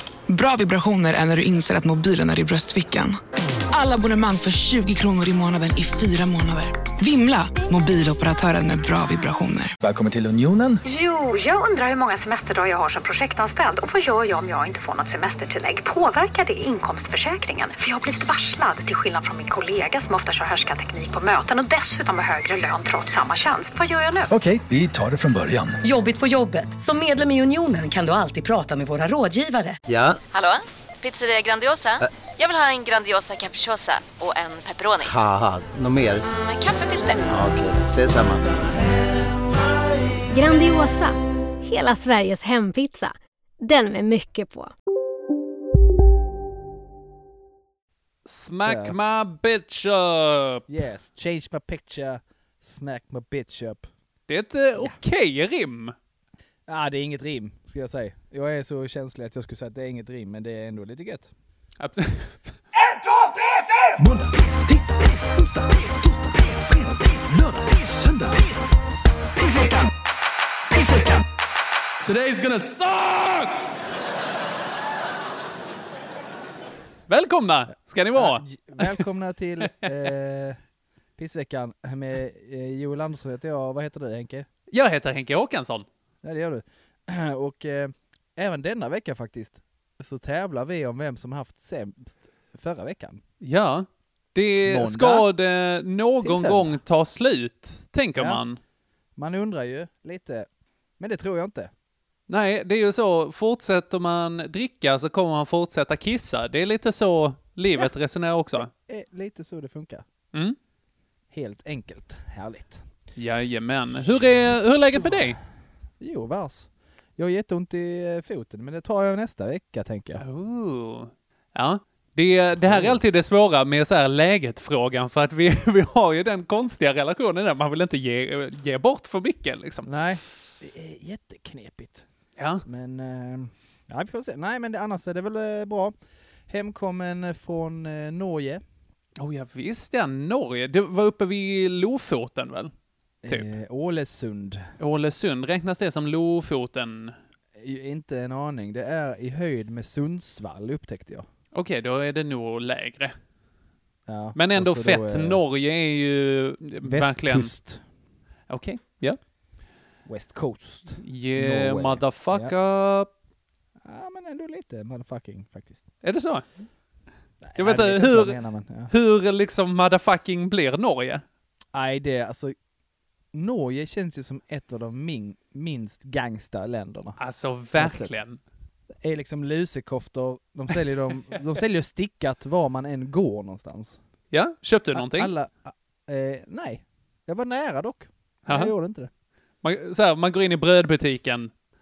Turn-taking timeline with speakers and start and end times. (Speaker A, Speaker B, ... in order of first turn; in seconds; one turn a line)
Speaker A: 0.3-3.2
Speaker A: 3.7-9.8
Speaker B: 9.8-10.8
Speaker C: 10.8-24.3
Speaker B: 24.3-25.8
Speaker D: 25.8-29.8
Speaker E: 29.9-30.2
Speaker F: 30.3-35.1
Speaker E: 35.0-36.2
Speaker F: 36.2-37.3
Speaker E: 37.3-38.5
Speaker G: 40.3-44.7
Speaker H: 48.2-50.7
Speaker I: 48.6-48.9
Speaker I: 50.7-53.9
Speaker H: 54.3-55.9
Speaker I: 56.7-61.3
Speaker H: 61.8-62.4
Speaker B: 64.0-68.7
Speaker B: 69.4-69.9
Speaker B: 70.7-71.2
Speaker B: 72.0-73.5
Speaker H: 77.1-79.0
Speaker I: 78.1-80.6
Speaker I: 81.2-84.5
Speaker H: 84.7-85.9
Speaker I: 86.2-93.2
Speaker H: 93.4-98.6
Speaker I: 94.6-95.2
Speaker I: 96.2-96.8
Speaker I: 99.2-100.5
Speaker I: 101.0-101.7
Speaker H: 102.3-108.7
Speaker I: 108.5-110.0
Speaker I: 111.3-112.8
Speaker H: 113.2-115.4
Speaker I: 114.9-115.4
Speaker I: 116.0-120.2
Speaker H: 120.2-129.9
Speaker I: 122.6-123.0
Speaker I: 129.8-132.0
Speaker H: 132.4-132.6
Speaker I: 132.6-135.9
Speaker I: 136.5-138.6
Speaker H: 139.2-142.7
Speaker I: 143.2-144.7
Speaker H: 144.8-147.2
Speaker I: 147.6-151.2
Speaker H: 151.5-153.2
Speaker I: 154.1-155.4
Speaker H: 154.3-157.5
Speaker I: 156.8-157.8
Speaker H: 158.5-159.2
Speaker I: 160.1-162.5
Speaker H: 161.0-163.1
Speaker I: 163.8-165.9
Speaker H: 166.0-166.4
Speaker I: 167.4-168.9
Speaker H: 167.6-168.3
Speaker H: 168.9-171.2
Speaker I: 171.7-172.5
Speaker I: 173.3-177.2
Speaker H: 177.2-178.4
Speaker I: 177.8-178.1
Speaker I: 179.0-184.0
Speaker H: 184.3-185.3
Speaker I: 184.9-189.1
Speaker H: 188.5-188.7
Speaker H: 189.6-191.5